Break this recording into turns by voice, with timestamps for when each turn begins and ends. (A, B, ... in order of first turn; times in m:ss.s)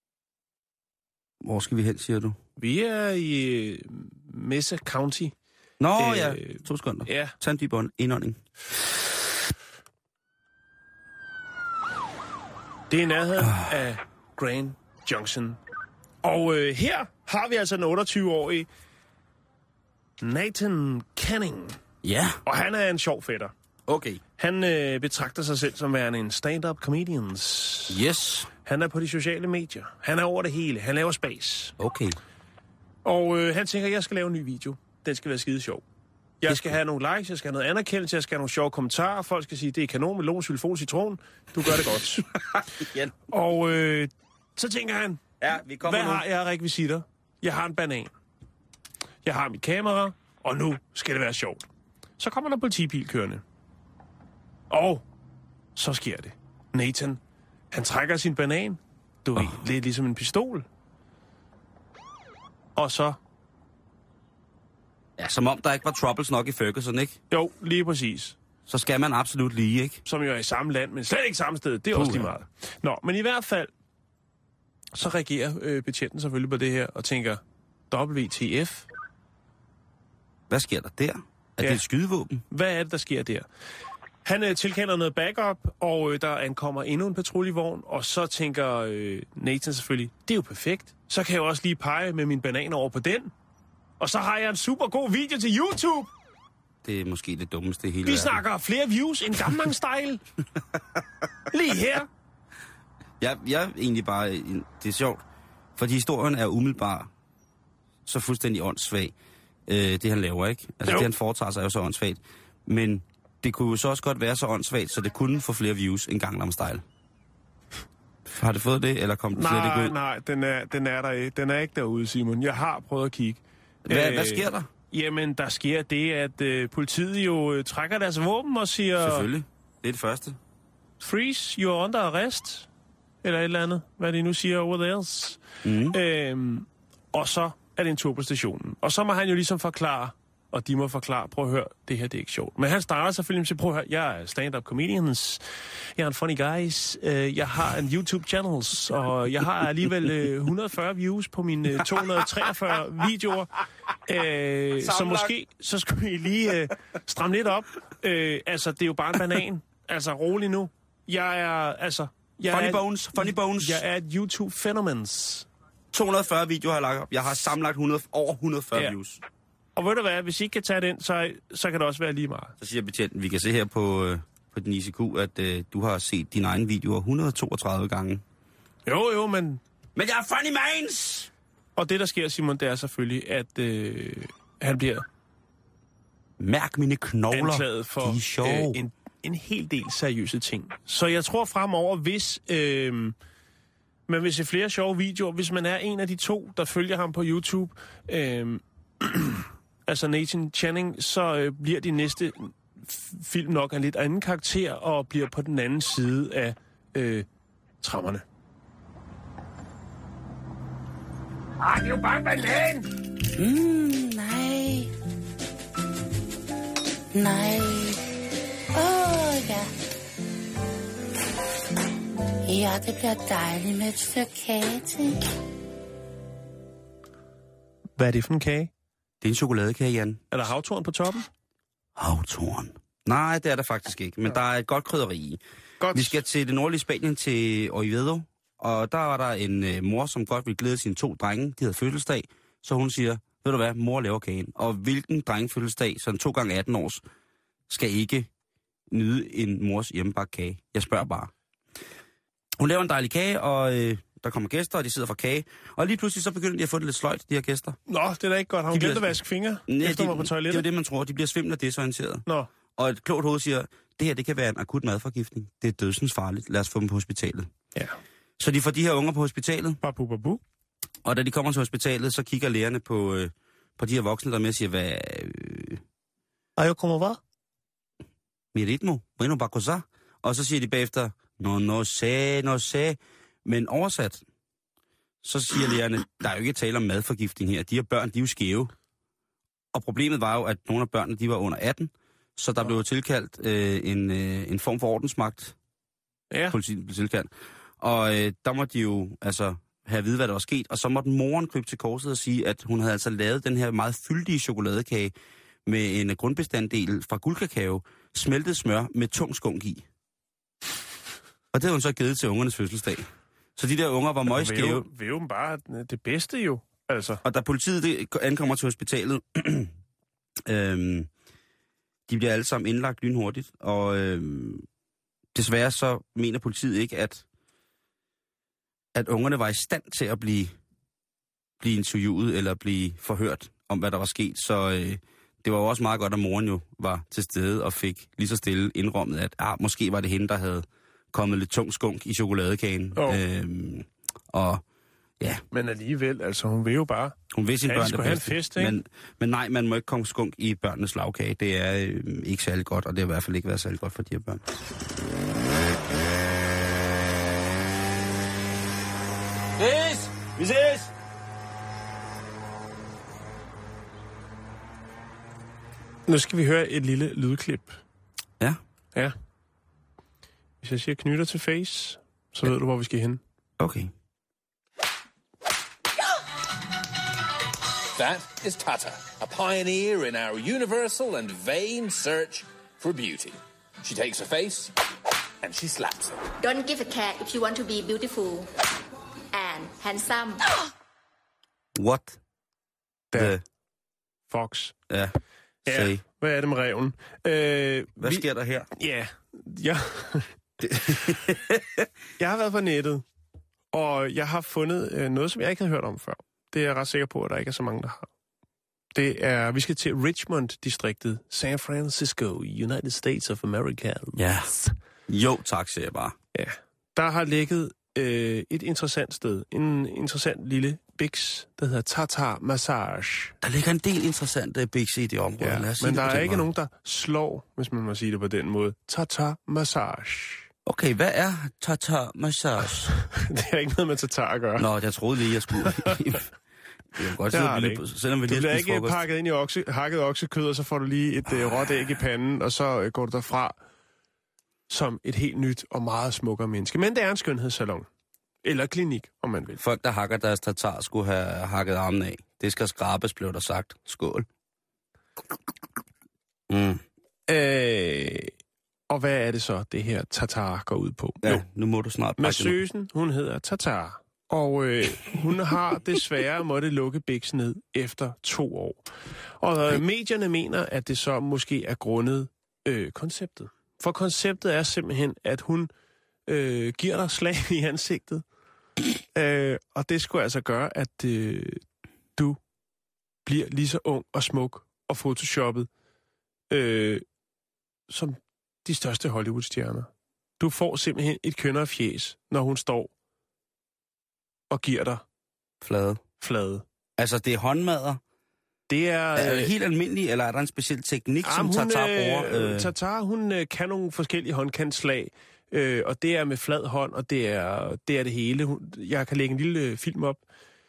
0:01.4-0:02.4 A
0:02.6-0:05.3 B
0:05.8-0:08.4 A
0:06.0-0:07.4 B
0:12.9-0:15.6 B
0:13.4-0:13.7 A
0:16.2-0:18.7 B
0:20.2-0:21.8 B
0:22.0-0:22.4 A
0:22.4-0:23.5 B
0:23.9-0:24.2 A
0:24.4-0:28.0 B
0:27.9-0:28.5 A
0:28.6-0:31.7 B
0:31.8-0:32.2 A
0:33.0-0:35.8 B
0:36.4-0:42.3 B
0:36.5-0:36.7 A
0:42.6-0:43.1 A
0:43.3-0:45.2 B
0:45.4-0:46.2 A
0:45.8-0:48.1 B
0:49.2-0:51.7 B
0:52.2-0:53.4 B
0:54.7-0:55.0 B
0:55.8-0:57.2 B
0:57.7-1:00.6 B
1:02.8-1:03.2 B
1:05.2-1:07.2 A
1:07.3-1:08.4 B
1:08.7-1:10.0 A
1:10.0-1:13.7 B
1:11.9-1:12.3 A
1:14.9-1:18.9 B
1:20.5-1:22.4 A
1:22.5-1:23.5 B
1:24.2-1:33.3 B
1:34.0-1:36.1 B
1:36.8-1:38.4 A
1:38.0-1:40.2 B
1:40.7-1:41.0 A
1:41.5-1:42.1 B
1:43.2-1:45.2 A
1:45.8-1:47.1 A
1:48.0-1:49.1 A
1:49.7-1:56.8 A
1:50.8-1:51.1 B
1:58.3-2:00.0 A
1:59.3-2:09.3 B
2:03.9-2:04.7 A
2:09.0-2:10.4 A
2:11.0-2:12.7 B
2:13.2-2:25.4 B
2:15.6-2:16.0 A
2:26.0-2:33.6 B
2:34.0-2:45.5 B
2:34.8-2:35.3 A
2:42.5-2:43.8 A
2:45.9-2:49.2 A
2:49.8-2:52.5 B
2:52.6-2:58.2 A
2:58.9-2:59.6 B
3:00.0-3:01.3 A
3:01.8-3:05.0 B
3:06.4-3:08.8 A
3:07.3-3:13.2 B
3:14.1-3:27.3 B
3:27.8-3:28.2 B
3:31.6-3:32.9 B
3:33.4-3:34.9 C
3:37.1-3:38.0 C
3:38.7-3:39.7 C
3:42.4-3:45.2 C
3:48.0-3:48.7 B
3:49.2-3:50.2 A
3:50.3-3:51.3 B
3:52.0-3:55.4 A
3:55.8-3:56.2 B
3:55.9-4:07.0 A
4:07.7-4:08.3 A
4:08.9-4:11.3 A
4:12.6-4:17.8 A
4:17.9-4:20.6 B
4:18.7-4:19.1 A
4:19.7-4:22.2 A
4:22.8-4:27.5 A
4:28.4-4:29.8 A
4:29.8-4:30.4 B
4:31.0-4:35.8 A
4:36.6-4:37.2 B
4:38.5-4:44.2 A
4:45.2-4:48.7 A
4:49.7-4:55.6 A
4:56.3-4:56.6 B
4:56.5-5:05.1 A
5:05.7-5:09.8 A
5:11.5-5:14.9 A
5:14.3-5:17.2 B
5:17.2-5:19.7 A
5:20.4-5:21.1 A
5:22.1-5:24.7 A
5:25.3-5:27.2 A
5:29.0-5:30.6 A
5:31.6-5:44.6 A
5:43.0-5:43.2 B
5:45.5-5:48.8 B
5:47.3-5:54.6 A
5:59.6-6:00.9 A
6:06.1-6:07.8 B
6:10.6-6:13.2 B
6:13.6-6:13.9 A
6:17.9-6:24.7 D
6:25.4-6:26.2 D
6:26.4-6:28.5 E
6:29.3-6:30.4 E
6:31.7-6:32.2 A
6:33.1-6:33.4 B
6:33.1-6:33.4 A
6:34.3-6:34.7 B
6:34.9-6:36.0 A
6:35.7-6:38.2 B
6:38.0-6:38.7 A
6:38.8-6:40.4 B
6:40.6-6:41.7 A
6:42.2-6:43.0 B
6:43.7-6:48.1 B
6:49.0-6:54.7 B
6:54.2-6:54.6 A
6:55.1-6:56.2 A
6:56.4-7:03.4 B
7:03.4-7:06.5 A
7:05.4-7:10.5 B
7:10.7-7:12.9 A
7:13.1-7:14.7 B
7:14.6-7:16.3 A
7:15.6-7:15.9 B
7:17.0-7:19.0 A
7:17.3-7:23.6 B
7:24.7-7:27.9 B
7:28.4-7:29.6 B
7:29.6-7:34.3 A
7:36.5-7:36.8 A
7:37.3-7:38.3 B
7:38.9-7:41.4 B
7:41.2-7:42.6 A
7:42.2-7:48.8 B
7:49.4-7:55.7 B
7:56.3-7:58.2 B
7:59.1-8:01.6 B
8:03.2-8:05.7 B
8:06.5-8:07.0 B
8:07.9-8:09.9 B
8:10.4-8:12.9 B
8:14.5-8:15.0 B
8:15.6-8:16.0 A
8:16.2-8:16.6 B
8:17.0-8:18.0 A
8:18.7-8:19.5 B
8:19.2-8:22.7 A
8:21.2-8:30.2 B